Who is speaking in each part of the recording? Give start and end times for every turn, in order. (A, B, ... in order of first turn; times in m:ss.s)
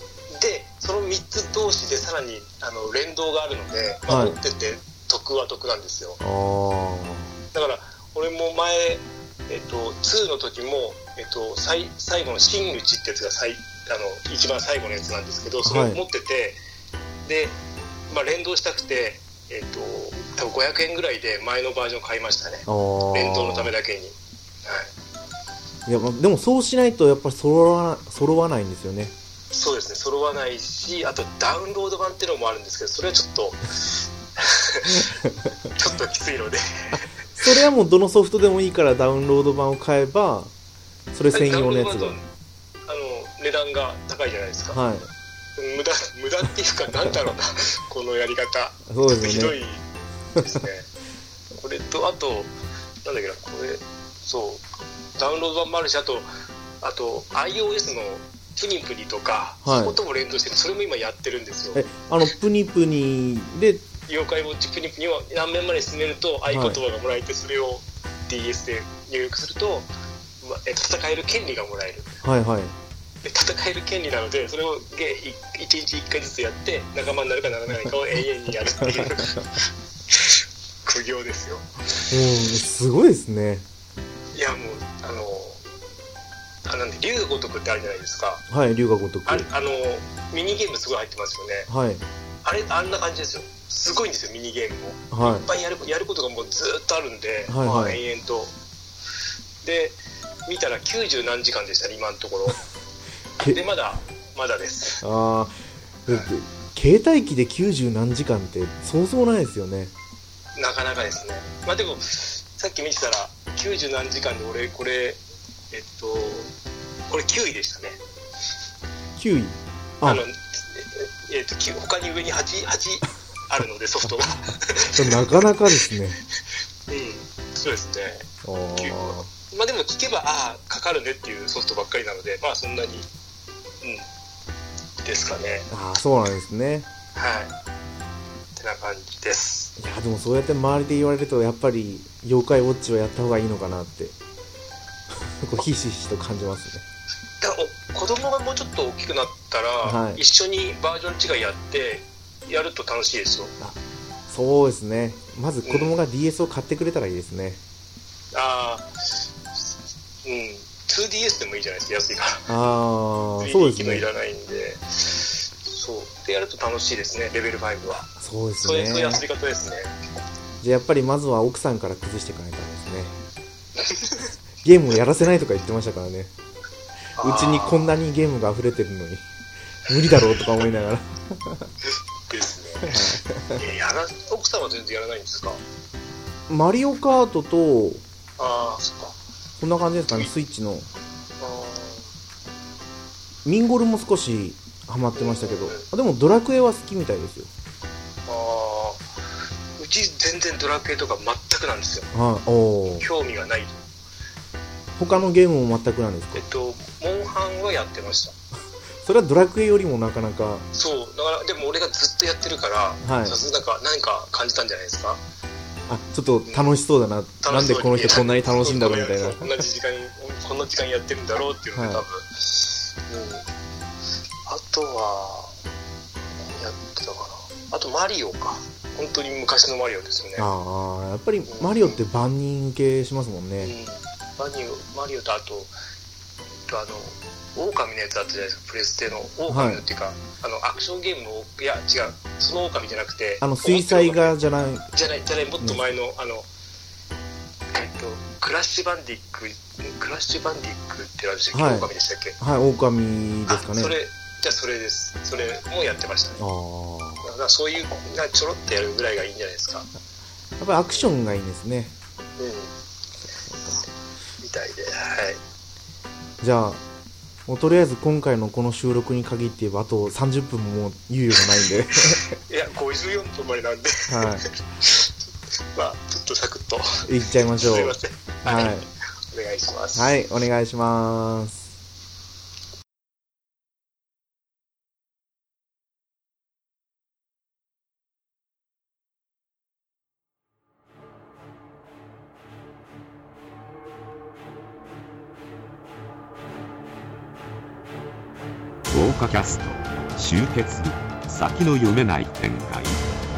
0:00.3-0:06.2 A
0:04.1-0:04.4 B
0:06.2-0:07.3 B
0:07.5-0:16.6 A
0:15.6-0:16.0 B
0:17.2-0:17.6 A
0:18.1-0:24.9 A
0:22.7-0:23.7 B
0:25.9-0:29.1 B
0:29.5-0:37.1 A
0:36.9-0:40.5 B
0:41.1-0:42.2 B
0:41.3-0:42.3 A
0:42.9-0:44.8 A
0:44.7-0:45.1 B
0:45.6-0:49.8 A
0:48.9-0:49.6 B
0:50.4-0:50.9 A
0:51.6-0:52.5 A
0:53.0-0:54.6 A
0:55.2-0:56.3 A
0:56.8-1:01.8 A
0:59.6-1:00.0 B
1:01.7-1:03.8 B
1:04.1-1:09.9 A
1:06.5-1:06.8 B
1:10.4-1:12.2 A
1:12.2-1:12.8 B
1:13.2-1:22.1 A
1:22.1-1:23.7 B
1:24.3-1:25.6 A
1:26.6-1:28.5 A
1:28.5-1:29.5 B
1:29.3-1:31.7 A
1:31.7-1:32.0 B
1:32.4-1:38.5 A
1:35.1-1:35.5 B
1:37.5-1:38.0 B
1:39.6-1:42.6 A
1:43.4-1:45.0 A
1:45.0-1:45.6 B
1:46.1-1:49.9 B
1:50.6-1:56.5 A
1:57.1-1:58.0 A
1:59.2-2:00.2 B
2:00.0-2:05.3 A
2:04.0-2:06.2 B
2:06.9-2:13.1 A
2:08.4-2:09.3 B
2:15.0-2:15.7 A
2:15.7-2:16.9 B
2:17.2-2:17.5 A
2:18.6-2:19.7 A
2:19.8-2:24.2 B
2:25.2-2:26.8 B
2:27.4-2:33.5 A
2:29.8-2:30.2 B
2:33.6-2:37.6 B
2:35.6-2:35.9 A
2:38.3-2:39.2 A
2:40.2-2:42.5 A
2:42.5-2:44.0 B
2:43.4-2:48.1 A
2:48.2-2:49.2 B
2:48.6-2:49.9 A
2:50.6-2:53.2 B
2:53.8-2:54.3 A
2:54.6-2:56.3 B
2:57.2-2:58.0 A
2:57.2-2:59.3 B
2:59.9-3:01.7 B
3:02.3-3:03.0 A
3:02.8-3:03.6 B
3:03.5-3:05.6 A
3:06.5-3:08.0 B
3:08.4-3:09.2 A
3:09.6-3:10.9 B
3:11.4-3:12.1 A
3:13.4-3:17.5 B
3:15.2-3:15.8 A
3:18.3-3:19.1 A
3:19.8-3:22.1 A
3:22.1-3:23.1 B
3:22.9-3:23.8 A
3:25.0-3:26.4 B
3:26.4-3:28.4 A
3:29.0-3:30.7 B
3:30.7-3:35.2 A
3:33.0-3:33.4 B
3:35.9-3:39.6 B
3:36.5-3:36.7 A
3:37.4-3:43.5 A
3:41.8-3:42.0 B
3:44.5-3:45.5 A
3:46.5-3:50.5 A
3:50.4-3:53.7 B
3:51.5-3:52.0 A
3:53.6-3:55.7 A
3:56.7-4:04.4 A
3:59.5-3:59.8 B
4:03.4-4:04.9 B
4:04.9-4:06.5 A
4:05.6-4:05.9 B
4:07.7-4:12.4 A
4:11.5-4:13.9 B
4:13.5-4:16.4 A
4:16.4-4:17.3 B
4:17.2-4:19.9 A
4:20.6-4:21.9 B
4:22.4-4:22.7 A
4:23.5-4:23.9 B
4:24.4-4:25.4 A
4:26.4-4:26.8 B
4:27.5-4:32.4 B
4:32.4-4:35.1 A
4:34.1-4:34.4 B
4:35.7-4:40.2 A
4:37.1-4:38.9 B
4:40.0-4:41.7 B
4:58.9-5:03.0 C